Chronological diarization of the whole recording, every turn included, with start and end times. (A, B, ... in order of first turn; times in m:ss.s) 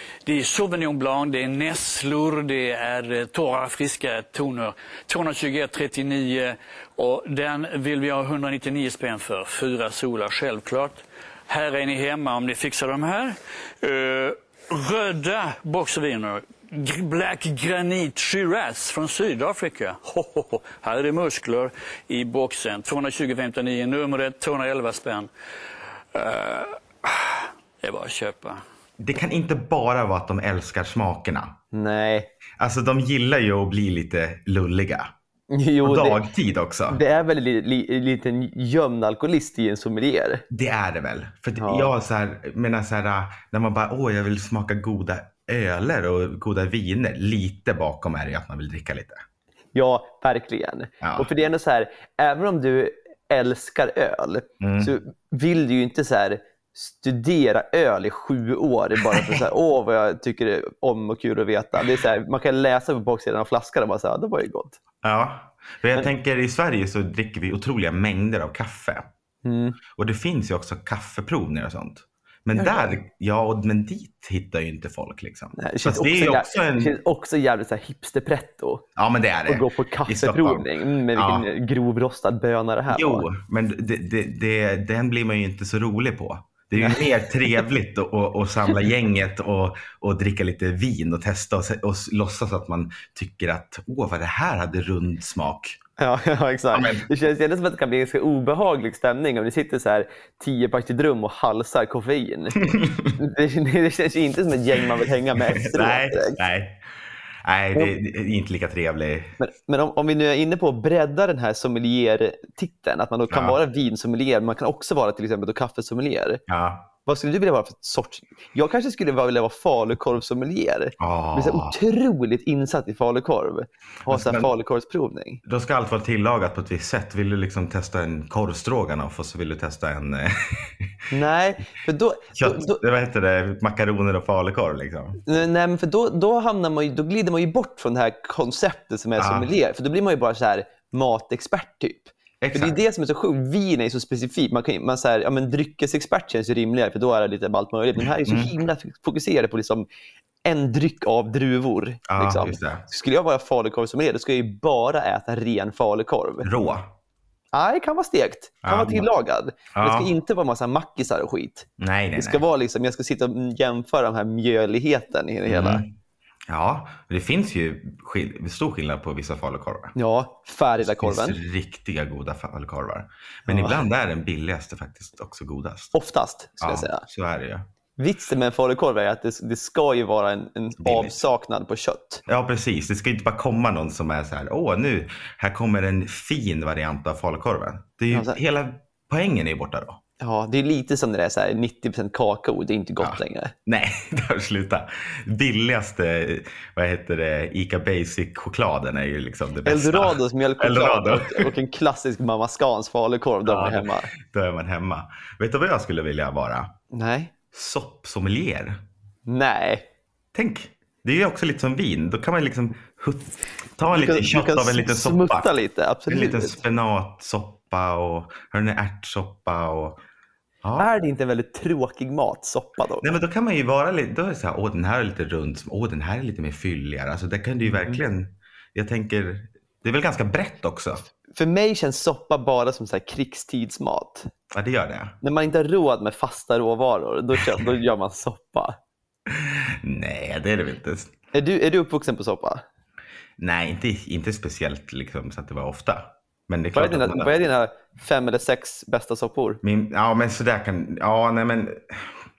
0:00.2-0:25.3 A
0:26.1-0:28.6 A
0:29.0-0:31.5 B
0:31.7-0:32.3 C
0:32.6-0:35.1 B
0:35.5-0:36.2 C
0:35.8-0:37.0 B
0:36.9-0:40.4 C
0:40.5-0:49.2 B
0:41.6-0:41.9 C
0:49.7-1:04.8 C
0:51.0-0:51.3 B
0:54.6-0:54.9 B
1:05.0-1:09.1 B
1:09.4-1:09.8 C
1:10.0-1:16.9 B
1:12.5-1:13.0 C
1:15.6-1:18.8 C
1:19.0-1:21.4 B
1:19.5-1:23.2 C
1:22.9-1:35.8 B
1:26.8-1:27.6 C
1:36.0-1:46.4 C
1:36.7-1:37.1 B
1:42.7-1:43.1 B
1:45.5-1:46.8 B
1:47.4-1:49.4 B
1:49.4-1:56.4 C
1:53.3-1:53.6 B
1:56.5-1:56.9 B
1:57.0-2:05.4 C
2:01.0-2:01.7 B
2:04.0-2:04.5 B
2:05.4-2:11.0 B
2:11.1-2:12.8 C
2:12.3-2:15.2 B
2:15.2-2:29.9 C
2:19.2-2:19.5 B
2:22.4-2:22.8 B
2:28.2-2:28.5 B
2:30.4-2:36.5 C
2:32.1-2:32.8 B
2:36.4-2:36.9 B
2:37.5-2:45.8 C
2:38.6-2:39.1 B
2:39.7-2:40.1 B
2:41.8-2:42.4 B
2:45.5-2:45.9 B
2:46.5-2:49.9 B
2:49.9-2:51.4 C
2:50.8-2:55.9 B
2:53.5-2:53.8 C
2:55.9-2:57.0 C
2:56.6-2:57.6 B
2:58.0-3:02.2 C
3:00.8-3:01.2 B
3:02.2-3:10.0 B
3:08.1-3:08.4 C
3:10.2-3:13.5 C
3:13.0-3:21.5 B
3:19.6-3:24.1 C
3:23.4-3:26.7 B
3:26.9-3:27.3 C
3:27.5-3:28.8 B
3:29.3-3:29.8 C
3:30.3-3:35.5 B
3:33.9-3:36.6 C
3:36.1-3:40.0 B
3:40.6-3:40.9 B
3:40.8-3:43.1 C
3:43.0-3:51.0 B
3:47.6-3:48.0 C
3:51.3-3:54.3 C
3:54.5-3:55.2 B
3:55.2-3:58.8 C
3:59.3-4:01.1 B
4:01.3-4:02.6 C
4:03.4-4:07.3 B
4:06.7-4:09.6 C
4:09.6-4:12.2 B